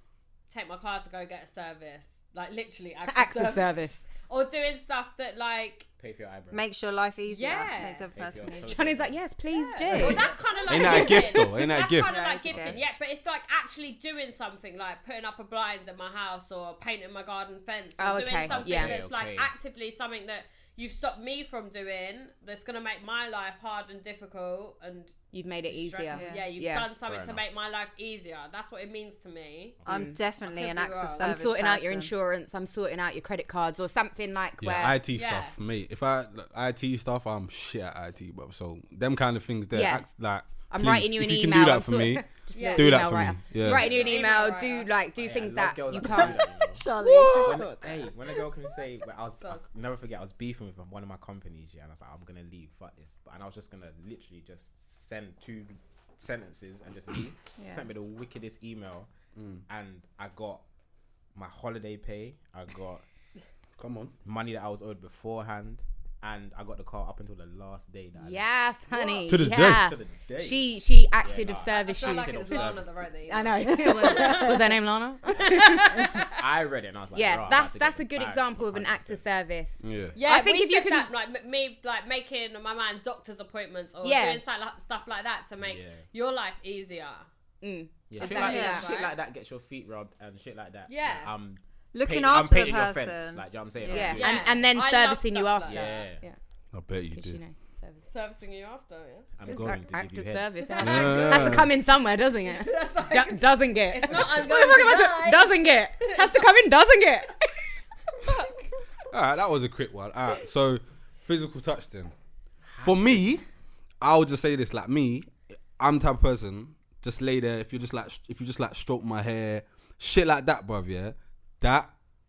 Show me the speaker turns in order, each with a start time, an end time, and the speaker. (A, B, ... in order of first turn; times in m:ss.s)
0:00.5-0:05.9 A
0:03.1-0:04.0 B
0:06.0-0:06.6 C
0:06.5-0:08.9 D
0:07.3-0:08.1 A
0:08.1-0:09.2 C
0:08.7-0:10.3 B
0:09.5-0:25.1 A
0:10.0-0:10.2 C
0:10.7-0:12.1 E
0:12.0-0:12.8 D
0:12.5-0:12.8 C
0:18.0-0:19.0 B
0:18.4-0:19.5 C
0:25.3-0:26.9 B
0:25.6-0:31.4 A
0:26.1-0:26.5 D
0:27.0-0:27.5 C
0:29.8-0:30.1 C
0:29.8-0:32.1 D
0:29.9-0:30.2 B
0:31.2-0:35.0 B
0:34.6-0:42.2 E
0:35.1-0:35.5 A
0:39.7-0:40.1 B
0:40.7-0:46.5 B
0:42.5-0:43.0 A
0:42.8-0:43.9 E
0:43.6-0:44.9 A
0:43.7-0:44.3 C
0:45.2-0:46.8 C
0:46.7-0:48.1 D
0:47.0-0:47.6 E
0:47.4-0:59.1 C
0:57.6-0:57.9 D
0:59.4-0:59.6 E
0:59.7-1:00.6 C
1:01.4-1:03.0 C
1:03.8-1:04.2 E
1:04.2-1:10.6 C
1:08.2-1:12.8 B
1:09.3-1:09.9 E
1:11.2-1:13.1 C
1:11.7-1:14.6 A
1:13.3-1:16.2 B
1:13.6-1:14.6 D
1:15.4-1:16.3 A
1:16.3-1:19.2 C
1:17.2-1:21.1 B
1:19.8-1:20.2 E
1:20.2-1:27.3 A
1:24.0-1:24.4 B
1:25.6-1:26.0 C
1:27.6-1:28.9 B
1:28.1-1:34.6 C
1:28.2-1:29.2 A
1:28.2-1:28.9 D
1:30.9-1:31.3 A
1:31.9-1:34.2 D
1:33.9-1:36.4 B
1:34.1-1:36.0 A
1:35.7-1:36.2 C
1:36.7-1:37.4 E
1:37.1-1:38.0 B
1:38.1-1:39.3 A
1:39.4-1:40.5 C
1:39.4-1:47.5 B
1:40.6-1:41.6 A
1:40.8-1:41.7 E
1:42.5-1:46.4 A
1:48.2-1:48.6 A
1:49.1-1:52.1 E
1:52.7-1:53.4 C
1:52.8-1:53.4 E
1:54.0-2:01.9 E